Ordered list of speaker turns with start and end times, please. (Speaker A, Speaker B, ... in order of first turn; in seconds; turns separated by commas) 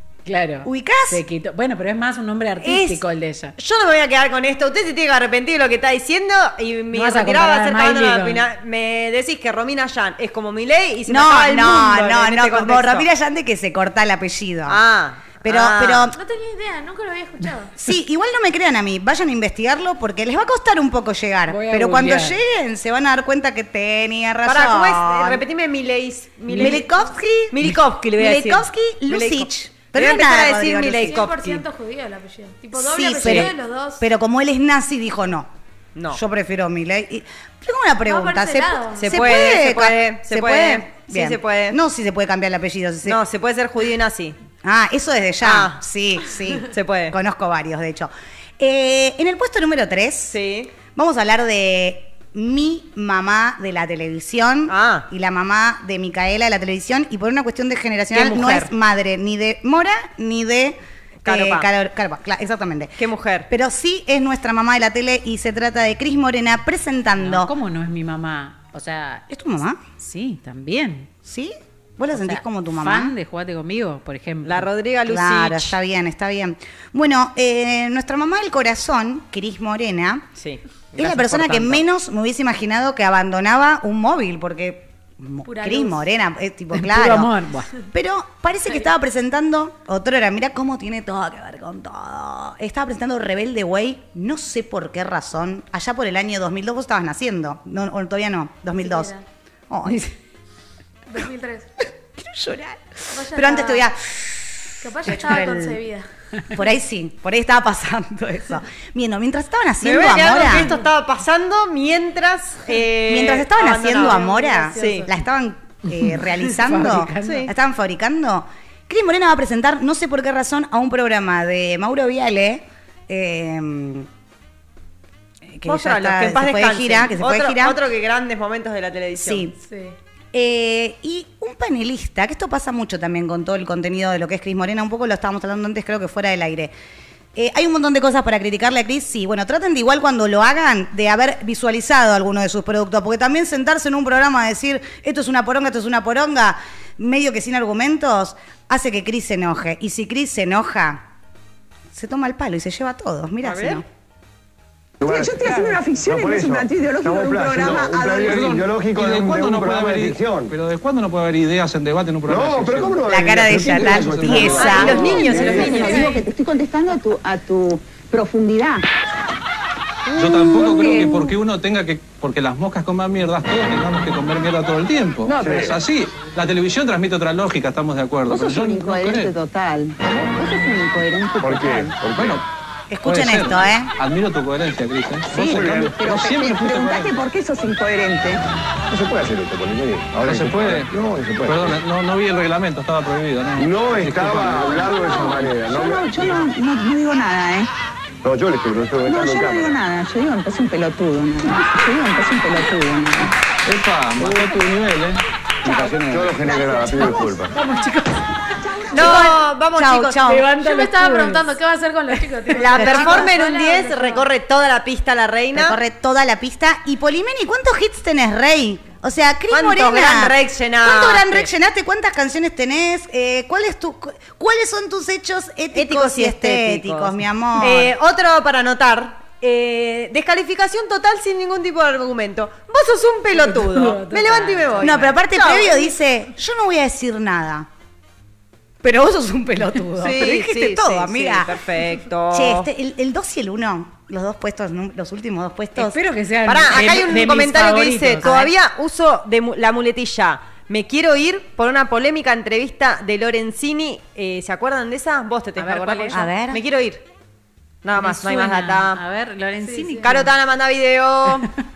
Speaker A: 0.2-3.5, Speaker B: 0.6-1.2, Speaker B: 2.6-3.0, Speaker C: 3.6-13.1, Speaker A: 6.9-8.5, Speaker B: 11.1-14.8, Speaker C: 14.7-16.1, Speaker B: 15.4-16.2, Speaker D: 16.1-17.7, Speaker B: 17.8-25.4, Speaker A: 21.5-22.4, Speaker C: 24.4-26.9, Speaker A: 26.5-26.9, Speaker B: 26.5-31.2, Speaker C: 27.5-31.6, Speaker D: 31.0-34.1, Speaker B: 32.7-35.5, Speaker C: 33.2-33.5, Speaker C: 35.9-36.2, Speaker B: 36.1-43.2, Speaker D: 38.0-39.1, Speaker C: 39.0-41.8, Speaker C: 43.0-44.4, Speaker B: 44.6-50.4, Speaker C: 45.4-45.8, Speaker C: 46.7-47.1, Speaker C: 50.3-50.7, Speaker B: 50.9-67.5, Speaker C: 54.7-55.0, Speaker C: 58.1-58.7, Speaker C: 61.2-61.7, Speaker C: 63.0-63.5, Speaker A: 67.2-69.2, Speaker B: 69.3-69.8, Speaker A: 70.0-71.1, Speaker B: 71.2-73.1, Speaker A: 72.1-74.7, Speaker C: 74.4-75.7, Speaker B: 75.0-80.3, Speaker C: 80.4-81.8, Speaker B: 81.0-87.3, Speaker D: 85.4-86.1, Speaker A: 86.7-87.7, Speaker B: 87.9-99.1, Speaker D: 98.8-99.2, Speaker B: 99.7-100.1, Speaker D: 101.1-101.7, Speaker B: 102.2-105.8, Speaker D: 103.1-103.9, Speaker D: 104.8-106.0, Speaker B: 106.5-110.7, Speaker C: 109.8-115.0, Speaker B: 113.0-124.1, Speaker D: 114.0-115.1, Speaker A: 116.0-117.5, Speaker C: 117.2-117.5, Speaker B: 125.5-127.8, Speaker C: 125.7-129.4, Speaker B: 129.2-129.6, Speaker D: 129.7-129.9, Speaker B: 130.3-136.7, Speaker B: 137.3-151.0, Speaker B: 151.9-153.8, Speaker C: 153.4-153.8, Speaker E: 155.0-158.7, Speaker F: 158.2-165.6, Speaker G: 158.7-160.4, Speaker E: 159.3-159.7, Speaker E: 162.4-162.8, Speaker G: 162.5-165.6, Speaker B: 163.1-165.1, Speaker C: 164.6-166.2, Speaker E: 165.1-168.8, Speaker F: 170.1-179.3, Speaker E: 175.3-175.8, Speaker E: 178.3-182.2, Speaker F: 182.0-182.4, Speaker B: 182.9-183.9, Speaker F: 183.0-187.2, Speaker E: 185.3-188.4, Speaker G: 188.9-191.4, Speaker F: 190.2-195.5, Speaker G: 193.6-195.6, Speaker E: 194.1-197.6, Speaker G: 198.6-198.8, Speaker E: 198.9-203.2, Speaker F: 203.7-205.2, Speaker E: 205.7-207.3, Speaker F: 205.8-206.3, Speaker G: 206.1-207.4, Speaker A: 207.5-208.3, Speaker C: 208.9-210.2, Speaker B: 208.9-210.6, Speaker A: 210.2-212.8, Speaker D: 210.6-214.2, Speaker C: 212.6-215.8, Speaker B: 212.7-213.3, Speaker B: 215.5-227.9, Speaker C: 219.5-221.5, Speaker C: 225.7-235.9, Speaker A: 233.3-235.1, Speaker B: 234.8-237.7, Speaker B: 238.8-241.5, Speaker C: 240.0-242.7, Speaker B: 242.3-246.0, Speaker A: 245.8-248.5, Speaker C: 246.4-257.0, Speaker B: 246.8-247.0, Speaker A: 255.6-256.3, Speaker B: 256.1-256.6, Speaker C: 257.8-259.0, Speaker A: 257.9-260.3, Speaker D: 259.6-260.2, Speaker C: 260.0-261.5